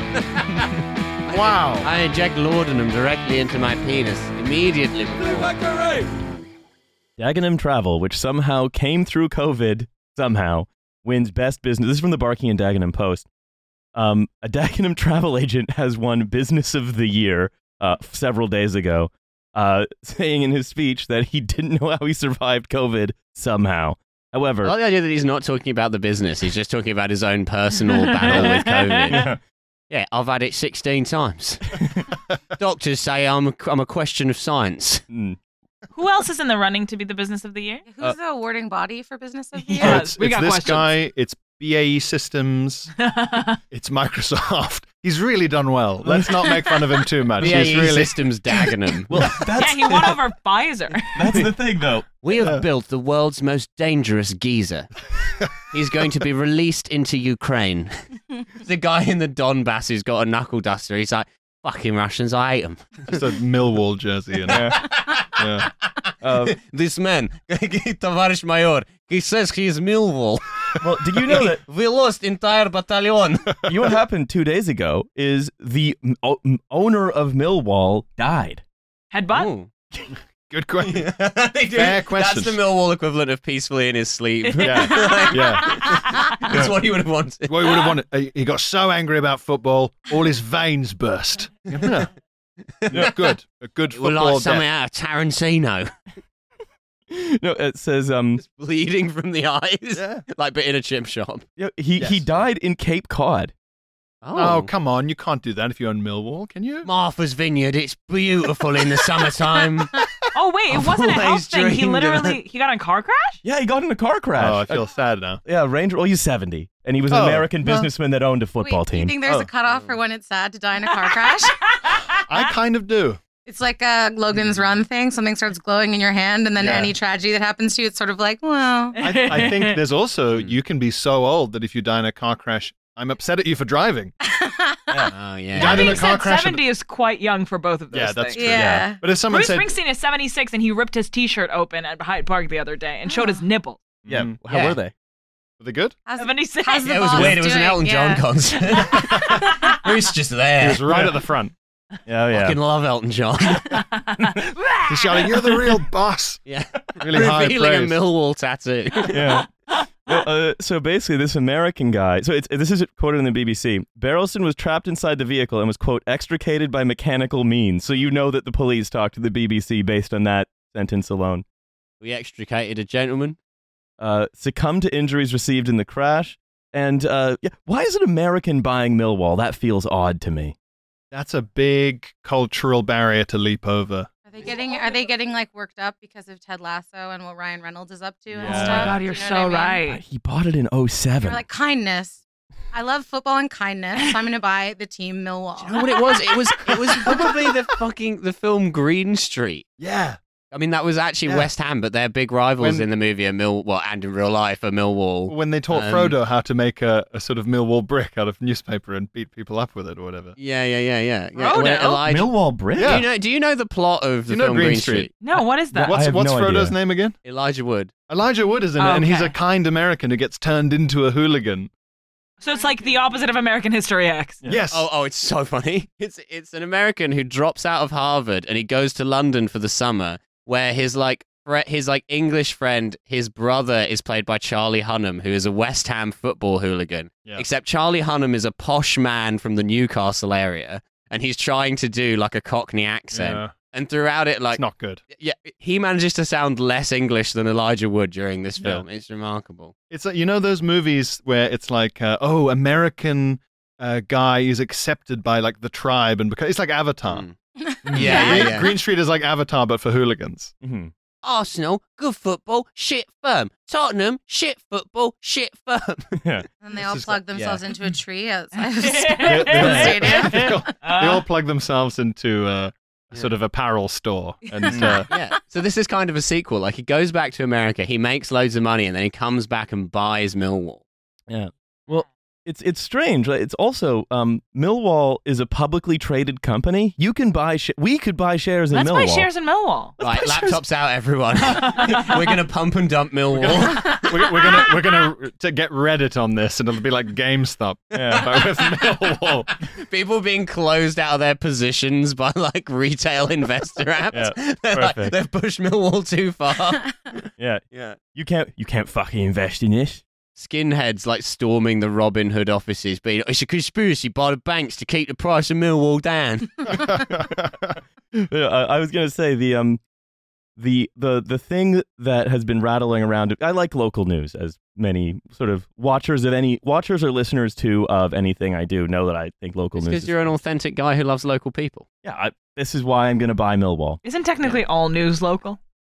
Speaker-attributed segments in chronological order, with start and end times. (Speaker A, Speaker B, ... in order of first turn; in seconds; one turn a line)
Speaker A: 0.1-0.7
Speaker A: 1.2-5.6
Speaker B: 1.3-1.9
Speaker C: 7.2-13.2
Speaker C: 13.9-24.7
Speaker A: 24.6-29.3
Speaker D: 27.9-29.0
Speaker B: 28.2-28.5
Speaker C: 29.1-29.4
Speaker A: 29.9-31.7
Speaker A: 32.6-35.0
Speaker C: 35.1-35.4
Speaker D: 35.9-37.8
Speaker E: 37.9-40.0
Speaker D: 39.5-40.9
Speaker B: 39.8-42.9
Speaker D: 43.0-43.6
Speaker B: 43.7-48.7
Speaker C: 46.0-46.7
Speaker A: 47.4-49.3
Speaker C: 47.4-47.7
Speaker C: 49.1-50.2
Speaker D: 49.5-51.3
Speaker C: 51.1-52.1
Speaker A: 52.2-54.9
Speaker B: 52.4-52.6
Speaker A: 55.7-57.9
Speaker A: 58.6-63.3
Speaker B: 63.1-64.7
Speaker C: 64.5-64.8
Speaker A: 64.5-70.5
Speaker B: 65.3-65.7
Speaker C: 66.2-66.6
Speaker C: 70.8-71.6
Speaker A: 71.3-73.5
Speaker C: 73.7-78.6
Speaker D: 79.1-79.5
Speaker A: 79.3-79.7
Speaker B: 80.5-81.0
Speaker A: 80.8-87.9
Speaker B: 81.7-82.6
Speaker C: 84.5-84.8
Speaker B: 84.6-86.0
Speaker D: 84.8-85.3
Speaker B: 87.5-92.1
Speaker A: 92.8-93.3
Speaker B: 92.9-94.6
Speaker A: 93.9-95.9
Speaker C: 97.1-98.4
Speaker A: 98.4-101.4
Speaker B: 99.9-100.2
Speaker C: 101.6-103.5
Speaker B: 102.0-102.3
Speaker A: 104.2-104.7
Speaker B: 104.3-106.9
Speaker A: 106.8-109.9
Speaker D: 110.3-113.4
Speaker A: 110.7-112.3
Speaker C: 113.4-114.8
Speaker B: 114.3-115.4
Speaker C: 115.4-119.4
Speaker B: 117.1-117.9
Speaker E: 118.6-121.6
Speaker A: 119.7-120.0
Speaker D: 120.9-122.2
Speaker B: 122.2-123.2
Speaker E: 123.4-128.9
Speaker B: 126.6-126.9
Speaker D: 129.0-129.8
Speaker B: 129.0-134.1
Speaker E: 134.2-135.1
Speaker A: 135.1-136.0
Speaker B: 135.5-136.6
Speaker D: 135.6-138.7
Speaker B: 137.9-139.7
Speaker E: 138.3-139.0
Speaker C: 138.6-138.9
Speaker D: 139.2-143.8
Speaker E: 143.1-143.4
Speaker B: 144.0-144.4
Speaker C: 144.1-144.9
Speaker A: 144.5-144.8
Speaker B: 145.6-146.0
Speaker E: 146.1-148.2
Speaker D: 146.2-147.3
Speaker A: 146.9-150.9
Speaker E: 148.8-149.4
Speaker D: 148.8-149.3
Speaker B: 150.6-151.5
Speaker C: 152.1-152.6
Speaker A: 152.3-153.8
Speaker D: 153.7-155.6
Speaker C: 154.2-154.5
Speaker B: 154.8-156.4
Speaker A: 156.4-159.4
Speaker B: 156.9-158.0
Speaker C: 159.1-159.5
Speaker C: 160.1-171.4
Speaker A: 172.0-173.4
Speaker C: 174.0-180.5
Speaker B: 181.1-184.1
Speaker E: 184.2-189.8
Speaker B: 188.4-189.0
Speaker D: 188.4-190.0
Speaker C: 189.8-191.4
Speaker E: 191.2-192.2
Speaker E: 192.7-195.8
Speaker A: 195.6-199.7
Speaker B: 199.8-200.2
Speaker A: 200.5-206.2
Speaker B: 201.2-201.5
Speaker B: 202.6-202.9
Speaker B: 205.3-210.3
Speaker A: 210.4-215.1
Speaker D: 211.4-212.0
Speaker C: 212.0-213.0
Speaker B: 212.8-213.1
Speaker B: 214.3-215.2
Speaker D: 215.2-215.9
Speaker C: 215.3-216.7
Speaker B: 215.8-217.2
Speaker A: 217.2-217.9
Speaker B: 218.1-221.7
Speaker D: 218.8-219.3
Speaker D: 222.4-224.4
Speaker B: 224.4-224.9
Speaker A: 224.7-249.7
Speaker B: 243.1-243.5
Speaker B: 244.5-245.0
Speaker B: 249.9-257.2
Speaker A: 257.1-257.4
Speaker E: 257.6-258.7
Speaker B: 257.8-260.5
Speaker A: 257.9-258.7
Speaker C: 260.6-260.9
Speaker A: 261.2-266.1
Speaker C: 266.1-266.5
Speaker E: 266.6-270.6
Speaker B: 266.7-267.2
Speaker A: 267.3-267.6
Speaker D: 268.6-271.2
Speaker B: 269.2-275.1
Speaker E: 274.5-275.2
Speaker C: 274.7-275.0
Speaker A: 275.1-280.8
Speaker C: 281.3-289.3
Speaker D: 288.7-290.0
Speaker C: 290.0-290.6
Speaker A: 290.0-294.0
Speaker D: 291.6-292.1
Speaker B: 293.3-299.5
Speaker C: 297.9-298.3
Speaker A: 298.1-298.8
Speaker A: 299.6-308.0
Speaker C: 304.1-305.1
Speaker C: 307.4-310.0
Speaker A: 310.3-316.8
Speaker B: 316.8-317.2
Speaker C: 316.9-319.8
Speaker C: 320.6-330.3
Speaker A: 329.7-331.9
Speaker C: 332.0-334.0
Speaker D: 334.0-335.6